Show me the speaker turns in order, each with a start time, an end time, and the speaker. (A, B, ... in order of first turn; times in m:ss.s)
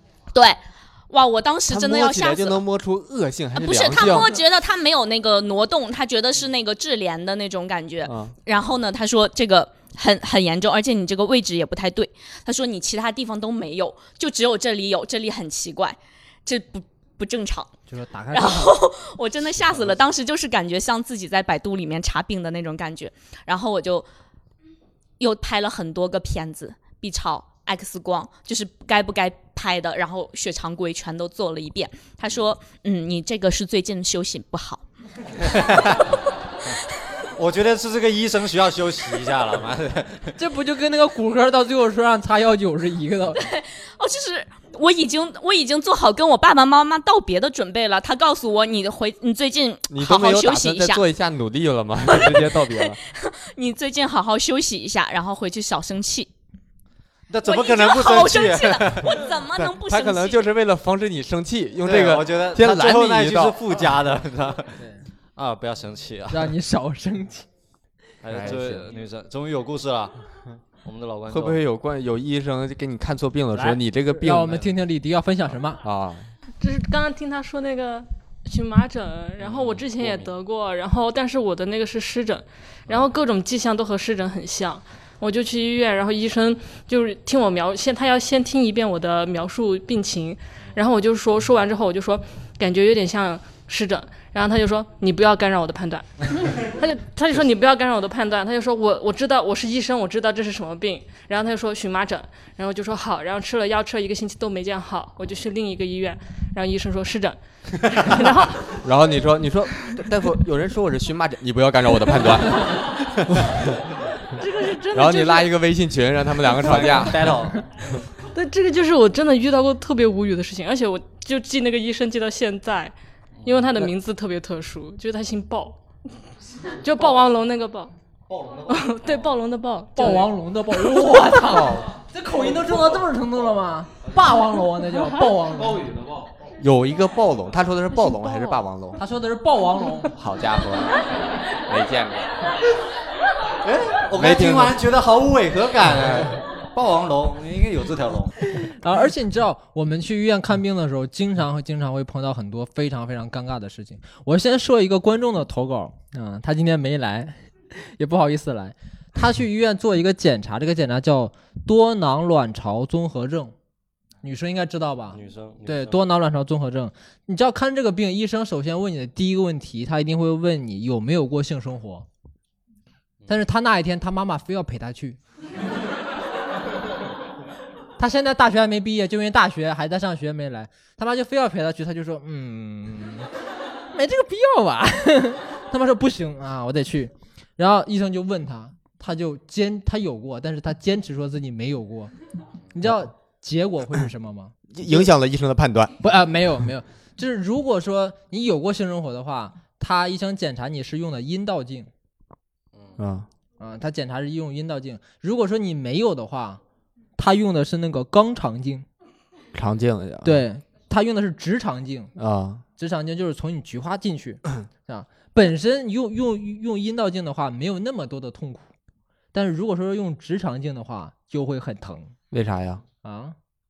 0:00.3-0:02.6 A
0:01.7-0:04.3 B
0:03.6-0:17.7 A
0:08.0-0:08.4 B
0:17.9-0:18.8 C
0:18.3-0:24.1 A
0:25.2-0:34.8 A
0:35.4-0:36.2 D
0:35.4-0:36.1 A
0:37.3-0:40.4 D
0:40.4-0:43.5 C
0:43.4-0:51.0 A
0:49.9-0:53.0 B
0:52.1-0:56.3 A
0:57.3-0:59.2 D
0:57.4-1:00.4 A
0:59.6-1:03.6 B
1:01.8-1:06.5 D
1:06.3-1:07.5 C
1:08.2-1:10.2 D
1:08.3-1:08.8 B
1:10.8-1:11.6 D
1:11.3-1:14.6 B
1:13.6-1:15.8 C
1:15.8-1:16.3 B
1:16.6-1:47.4 E
1:19.4-1:20.3 D
1:47.9-1:48.8 E
1:48.8-1:53.6 B
1:54.3-1:55.5 E
1:54.9-1:57.4 B
1:56.6-1:57.6 D
1:58.3-2:05.8 E
2:06.8-2:07.9 E
2:08.3-2:09.3 D
2:08.7-2:10.3 E
2:10.0-2:16.0 C
2:11.3-2:11.9 B
2:16.6-2:19.0 B
2:19.0-2:20.1 C
2:20.2-2:21.0 B
2:21.6-2:22.3 B
2:23.6-2:28.4 D
2:24.1-2:24.8 B
2:28.5-2:43.6 C
2:44.2-2:52.1 C
2:45.1-2:46.0 D
2:53.3-2:55.2 C
2:58.0-3:03.3 C
3:03.9-3:12.1 C
3:12.7-3:15.1 C
3:14.7-3:16.0 B
3:16.0-3:21.9 C
3:23.0-3:23.3 B
3:23.6-3:26.6 C
3:27.2-3:28.9 C
3:29.5-3:30.4 B
3:30.2-3:32.1 C
3:32.2-3:32.6 B
3:32.8-3:38.7 C
3:39.3-3:42.1 C
3:42.3-3:42.8 B
3:43.0-3:43.4 C